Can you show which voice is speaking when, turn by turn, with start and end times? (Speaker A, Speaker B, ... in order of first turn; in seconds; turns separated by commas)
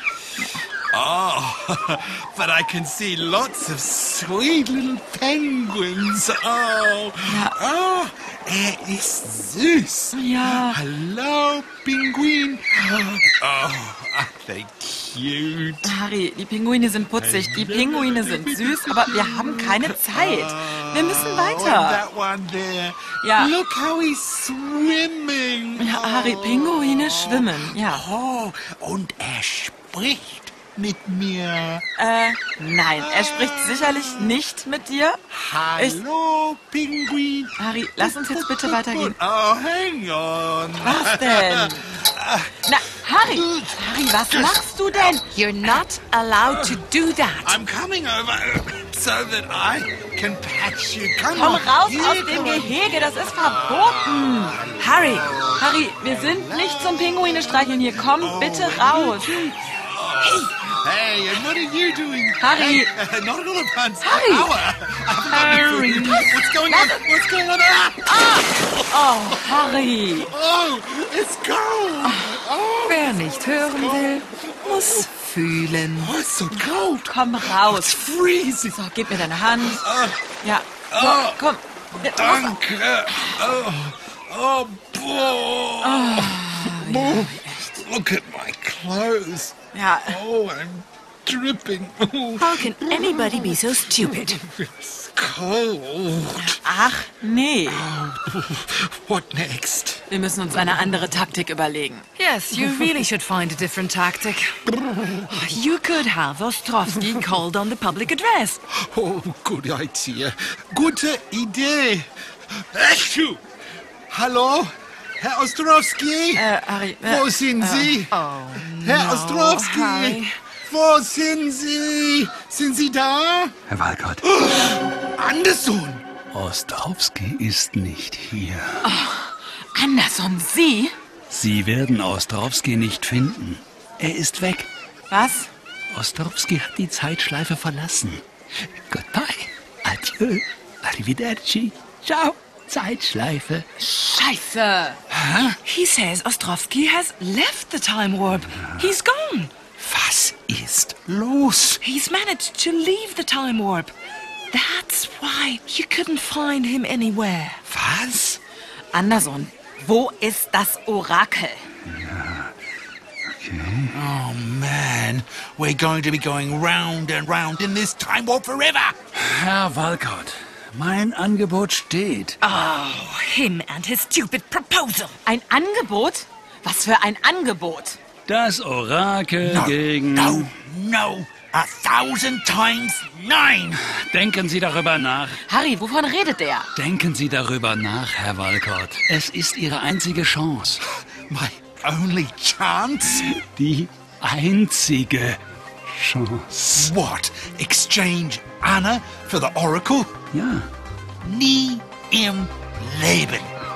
Speaker A: 0.4-0.7, Speaker B: 0.9-15.9, Speaker A: 7.3-7.6, Speaker A: 10.1-10.8, Speaker A: 15.8-22.0, Speaker B: 17.2-31.9, Speaker A: 23.2-23.5, Speaker A: 25.8-28.1, Speaker A: 32.0-35.2, Speaker B: 33.0-34.3, Speaker B: 35.3-44.6, Speaker A: 37.6-39.2, Speaker A: 40.8-41.9, Speaker A: 42.6-45.3, Speaker C: 45.3-47.6, Speaker B: 46.4-46.8, Speaker B: 47.4-57.2, Speaker A: 51.3-59.4, Speaker B: 58.1-75.1, Speaker A: 60.2-60.5, Speaker A: 62.4-62.9, Speaker A: 64.0-64.5, Speaker C: 65.3-66.2, Speaker A: 65.5-67.0, Speaker A: 68.1-70.3, Speaker A: 72.0-72.4, Speaker C: 72.8-76.1, Speaker B: 75.8-80.4, Speaker A: 76.5-78.0, Speaker A: 78.7-79.9, Speaker A: 80.4-82.6, Speaker B: 80.9-81.4, Speaker B: 82.0-89.6, Speaker A: 85.8-87.8, Speaker A: 89.7-90.2, Speaker B: 90.1-96.6, Speaker C: 92.4-94.4, Speaker A: 96.4-97.9, Speaker B: 97.7-100.0, Speaker A: 100.1-102.1, Speaker C: 102.2-104.6, Speaker B: 104.8-105.4, Speaker C: 105.2-108.6, Speaker B: 108.7-113.4, Speaker B: 114.1-116.5, Speaker A: 116.3-118.0, Speaker B: 117.0-123.5, Speaker C: 118.1-120.3, Speaker D: 123.7-124.3, Speaker B: 124.3-126.1, Speaker D: 126.3-128.9, Speaker A: 128.8-130.9, Speaker D: 131.3-134.7, Speaker A: 135.1-135.5, Speaker D: 135.9-138.2, Speaker D: 138.9-143.7, Speaker A: 143.8-145.0, Speaker B: 145.1-145.6, Speaker C: 145.7-149.5, Speaker B: 149.8-151.8, Speaker C: 151.8-153.9, Speaker C: 154.5-157.6, Speaker B: 157.7-158.4, Speaker A: 158.9-161.7, Speaker D: 161.8-162.5, Speaker D: 163.3-163.9, Speaker B: 163.9-169.0, Speaker D: 169.1-172.4, Speaker C: 172.4-175.2, Speaker A: 175.2-178.0, Speaker D: 178.3-180.6, Speaker B: 179.4-183.8, Speaker D: 183.9-185.4, Speaker A: 185.5-186.7, Speaker D: 186.8-190.8, Speaker B: 191.0-193.3, Speaker D: 193.2-195.4, Speaker D: 195.9-196.9, Speaker B: 196.7-200.2, Speaker D: 200.3-200.7, Speaker B: 201.2-203.5